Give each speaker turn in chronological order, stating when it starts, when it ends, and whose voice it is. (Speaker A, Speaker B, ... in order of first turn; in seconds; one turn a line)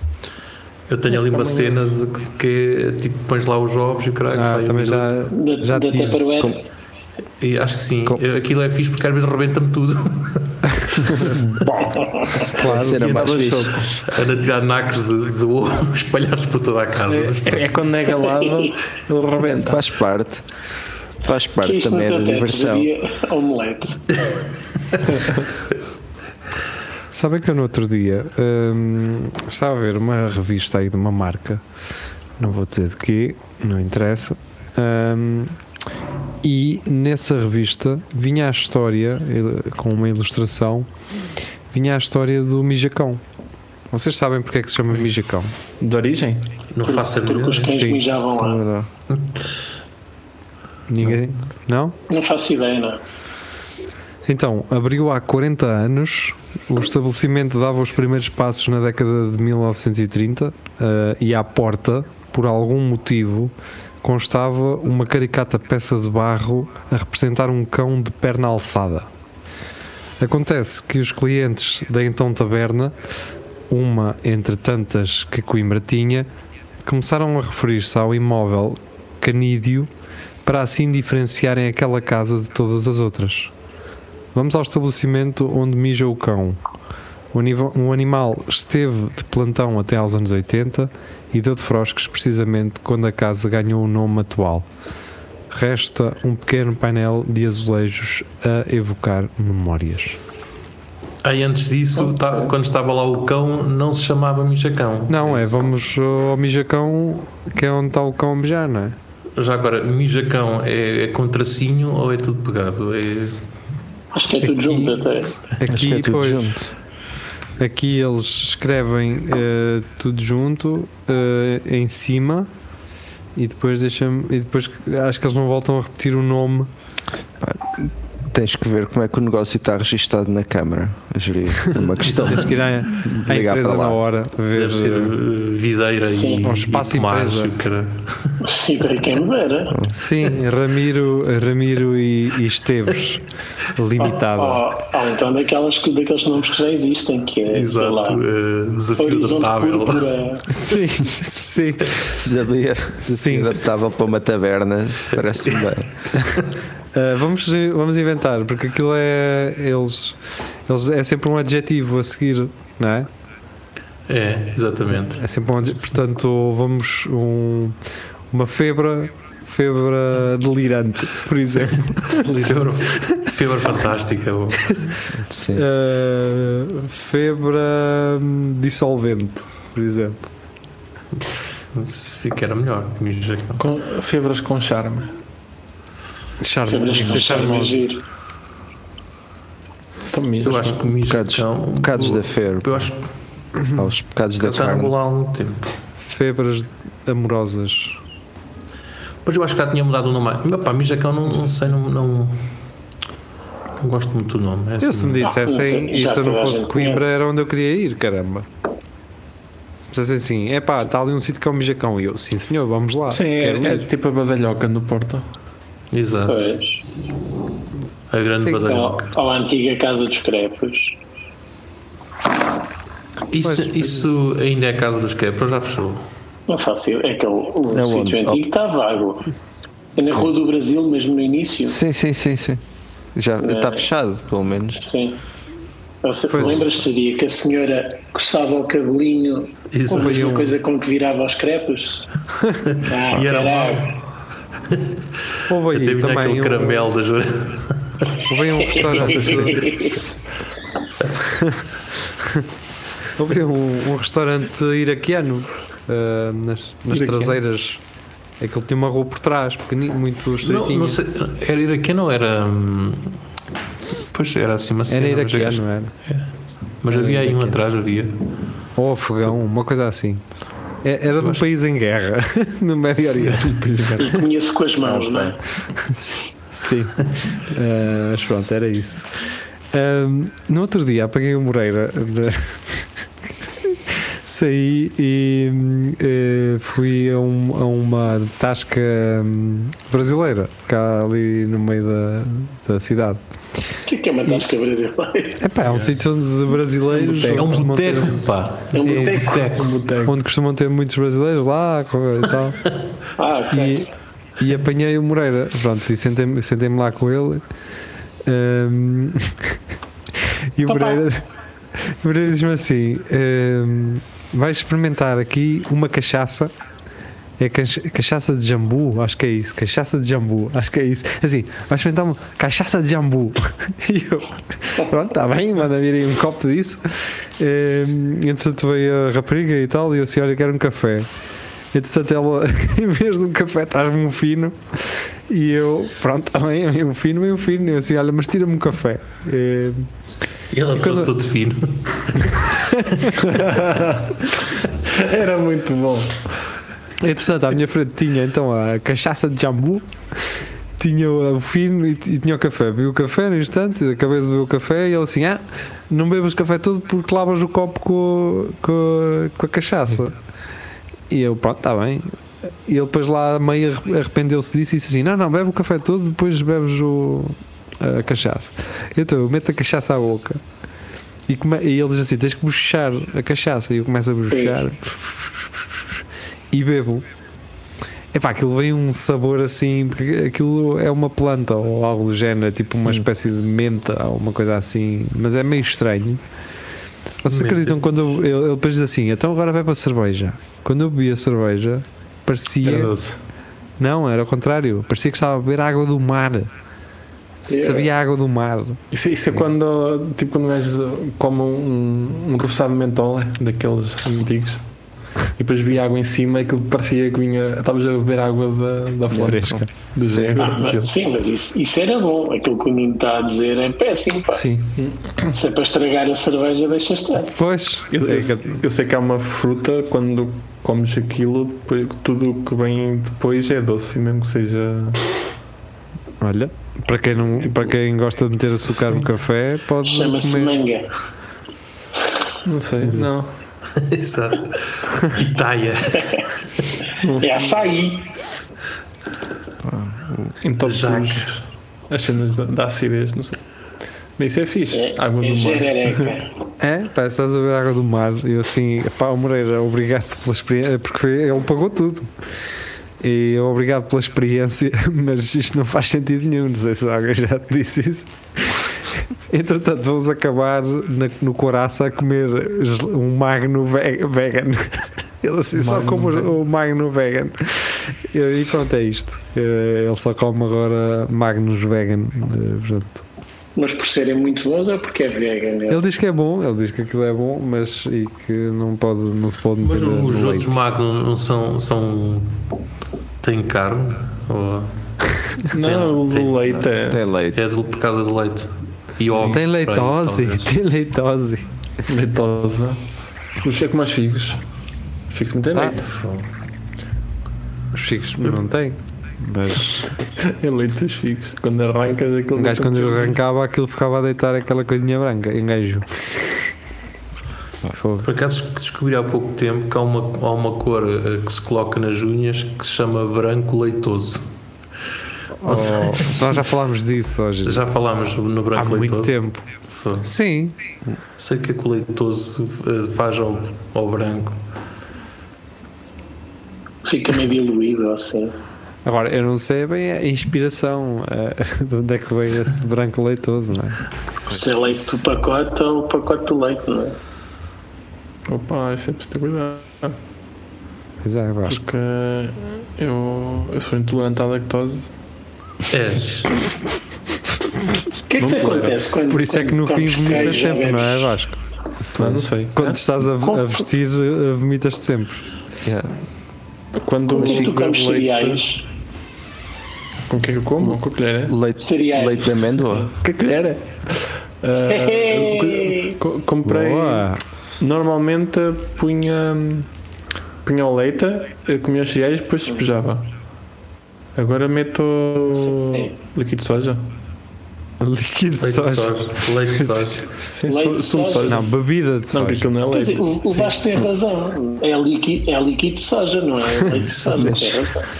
Speaker A: 0.9-5.1
Speaker B: 1.2-1.9
Speaker C: 4.3-6.3
Speaker D: 5.3-6.6
Speaker A: 7.4-11.8
Speaker D: 11.6-12.5
Speaker C: 12.4-14.0
Speaker A: 12.6-17.8
Speaker E: 12.6-13.8
Speaker B: 17.1-19.9
Speaker D: 18.4-18.7
Speaker E: 19.6-20.4
Speaker E: 21.2-22.9
Speaker D: 21.6-24.4
Speaker C: 27.1-31.6
Speaker C: 32.4-35.6
Speaker C: 36.4-40.9
Speaker C: 41.7-43.2
Speaker C: 43.9-45.5
Speaker B: 45.8-46.5
Speaker A: 46.7-47.9
Speaker D: 46.8-48.6
Speaker C: 47.7-48.0
Speaker E: 48.4-48.9
Speaker C: 50.9-51.9
Speaker D: 52.1-53.0
Speaker C: 54.2-69.1
Speaker C: 70.2-73.0
Speaker C: 73.7-76.3
Speaker C: 76.8-79.9
Speaker C: 80.4-83.5
Speaker C: 84.3-86.6
Speaker C: 87.3-94.7
Speaker C: 95.5-100.2
Speaker A: 101.2-105.7
Speaker C: 105.1-109.0
Speaker A: 109.3-113.4
Speaker D: 114.1-115.3
Speaker C: 114.6-115.0
Speaker C: 115.6-116.6
Speaker E: 115.7-116.7
Speaker C: 117.6-122.5
Speaker C: 123.3-126.7
Speaker E: 127.4-134.0
Speaker A: 132.0-132.4
Speaker C: 132.0-135.1
Speaker A: 134.5-138.4
Speaker D: 136.1-136.5
Speaker C: 136.4-137.6
Speaker D: 138.4-139.8
Speaker E: 139.7-139.9
Speaker C: 139.9-144.7
Speaker D: 144.0-148.2
Speaker A: 147.5-150.1
Speaker D: 149.0-150.5
Speaker C: 150.5-152.2
Speaker E: 152.1-155.9
Speaker C: 153.0-153.6
Speaker C: 156.9-163.1
Speaker A: 164.1-165.2
Speaker C: 165.1-167.8
Speaker C: 168.3-172.3
Speaker A: 172.1-174.9
Speaker C: 174.7-175.0
Speaker E: 175.2-175.7
Speaker C: 175.5-180.2
Speaker A: 181.7-183.6
Speaker B: 183.6-185.1
Speaker C: 186.4-187.8
Speaker D: 186.7-188.0
Speaker B: 190.1-190.9
Speaker A: 190.4-193.0
Speaker E: 191.0-192.9
Speaker E: 193.7-194.9
Speaker A: 194.4-195.7
Speaker C: 196.1-198.0
Speaker A: 199.2-202.4
Speaker A: 203.8-205.3
Speaker C: 204.8-208.4
Speaker D: 205.2-207.2
Speaker C: 209.9-213.9
Speaker B: 213.1-215.2
Speaker A: 215.9-216.5
Speaker D: 216.3-216.8
Speaker A: 218.1-219.1
Speaker D: 218.6-221.0
Speaker A: 223.3-226.0
Speaker C: 223.4-224.0
Speaker D: 226.5-229.3
Speaker E: 227.7-228.4
Speaker D: 230.0-231.8
Speaker E: 231.7-232.6
Speaker E: 233.1-234.8
Speaker D: 233.4-233.8
Speaker D: 234.8-235.2
Speaker D: 236.0-242.0
Speaker C: 236.3-236.7
Speaker A: 239.7-240.5
Speaker C: 239.9-240.5
Speaker A: 242.7-244.0
Speaker D: 242.8-243.9
Speaker C: 245.5-246.9
Speaker A: 245.7-248.2
Speaker C: 248.2-249.7
Speaker D: 248.7-250.0
Speaker B: 248.9-249.9
Speaker C: 251.2-251.6
Speaker C: 252.2-252.4
Speaker C: 253.1-257.8
Speaker B: 256.9-257.3
Speaker C: 258.4-261.0
Speaker A: 260.4-263.2
Speaker A: 264.1-266.2
Speaker C: 264.9-265.9
Speaker A: 266.8-268.2
Speaker C: 266.9-267.6
Speaker C: 268.8-270.2
Speaker C: 270.8-274.2
Speaker A: 271.2-271.4
Speaker B: 273.4-273.8
Speaker D: 274.0-275.4
Speaker E: 274.8-275.4
Speaker C: 275.8-279.1
Speaker C: 279.7-282.9
Speaker C: 283.6-293.2
Speaker D: 293.9-295.4
Speaker C: 295.4-298.2
Speaker A: 297.1-299.7
Speaker D: 298.7-299.4
Speaker C: 298.8-299.4
Speaker B: 299.4-300.2
Speaker C: 300.0-302.6
Speaker D: 303.2-303.9
Speaker C: 303.5-303.9
Speaker C: 304.4-307.4
Speaker C: 308.2-309.6
Speaker C: 310.2-311.2
Speaker D: 310.7-311.0
Speaker C: 311.7-316.5
Speaker C: 317.4-331.1
Speaker C: 331.7-339.9
Speaker A: 340.5-342.4
Speaker C: 340.7-341.1
Speaker C: 342.4-343.1
Speaker B: 343.2-344.2
Speaker B: 344.8-346.2
Speaker C: 347.0-349.9
Speaker C: 350.8-360.2
Speaker C: 361.1-370.4
Speaker C: 371.3-377.1
Speaker D: 374.3-374.6
Speaker C: 378.1-386.2
Speaker C: 387.2-392.9
Speaker A: 387.3-387.8
Speaker B: 392.6-393.2
Speaker C: 393.8-396.5
Speaker D: 397.5-397.9
Speaker C: 397.5-398.8
Speaker B: 398.9-404.6
Speaker B: 405.4-411.0
Speaker E: 409.1-410.4
Speaker C: 409.1-409.7
Speaker D: 410.4-414.4
Speaker B: 414.3-415.3
Speaker D: 415.3-417.3
Speaker C: 417.2-418.6
Speaker B: 417.9-425.0
Speaker C: 426.2-430.6
Speaker B: 427.4-427.7
Speaker D: 429.8-430.9
Speaker B: 432.4-433.3
Speaker A: 433.7-436.3
Speaker B: 437.0-437.7
Speaker D: 437.2-438.1
Speaker E: 439.6-440.3
Speaker B: 440.4-443.4
Speaker A: 440.6-441.4
Speaker B: 444.2-446.1
Speaker D: 444.7-446.3
Speaker C: 446.6-452.1
Speaker C: 453.0-458.6
Speaker C: 459.3-473.0
Speaker B: 465.5-466.3
Speaker D: 473.6-475.8
Speaker C: 475.7-480.6
Speaker A: 479.6-482.4
Speaker A: 483.2-484.7
Speaker A: 485.4-486.6
Speaker B: 485.5-487.0
Speaker E: 486.9-487.5
Speaker A: 487.3-490.5
Speaker C: 489.2-491.5
Speaker B: 491.9-492.8
Speaker B: 493.4-494.4
Speaker B: 495.1-495.9
Speaker A: 495.9-496.2
Speaker C: 497.7-499.9
Speaker B: 500.1-503.2
Speaker C: 502.3-506.0
Speaker C: 507.7-508.1
Speaker A: 508.0-514.3
Speaker C: 515.4-517.6
Speaker A: 515.4-516.2
Speaker A: 517.4-519.2
Speaker C: 518.5-519.5
Speaker A: 519.7-520.1
Speaker C: 520.0-520.6
Speaker A: 521.2-524.4
Speaker D: 526.8-528.3
Speaker C: 528.8-533.8
Speaker D: 534.3-537.0
Speaker B: 538.2-540.0
Speaker C: 541.0-541.6
Speaker B: 541.5-544.9
Speaker A: 545.7-546.4
Speaker D: 548.1-551.1
Speaker B: 548.2-548.7
Speaker C: 549.1-551.4
Speaker B: 551.9-552.8
Speaker E: 552.0-552.2
Speaker C: 552.5-555.2
Speaker D: 553.2-553.5
Speaker E: 555.6-555.9
Speaker B: 556.8-558.5
Speaker D: 557.1-558.6
Speaker E: 557.2-557.5
Speaker B: 560.1-561.4
Speaker E: 560.6-562.9
Speaker D: 561.6-562.5
Speaker B: 562.9-569.7
Speaker D: 564.6-566.0
Speaker C: 566.4-567.2
Speaker B: 570.4-573.1
Speaker B: 574.1-576.9
Speaker D: 575.6-575.9
Speaker C: 577.8-579.0
Speaker A: 578.4-580.1
Speaker B: 580.2-581.5
Speaker D: 580.5-581.3
Speaker C: 581.2-582.5
Speaker B: 582.1-583.7
Speaker D: 582.7-587.9
Speaker E: 587.0-587.6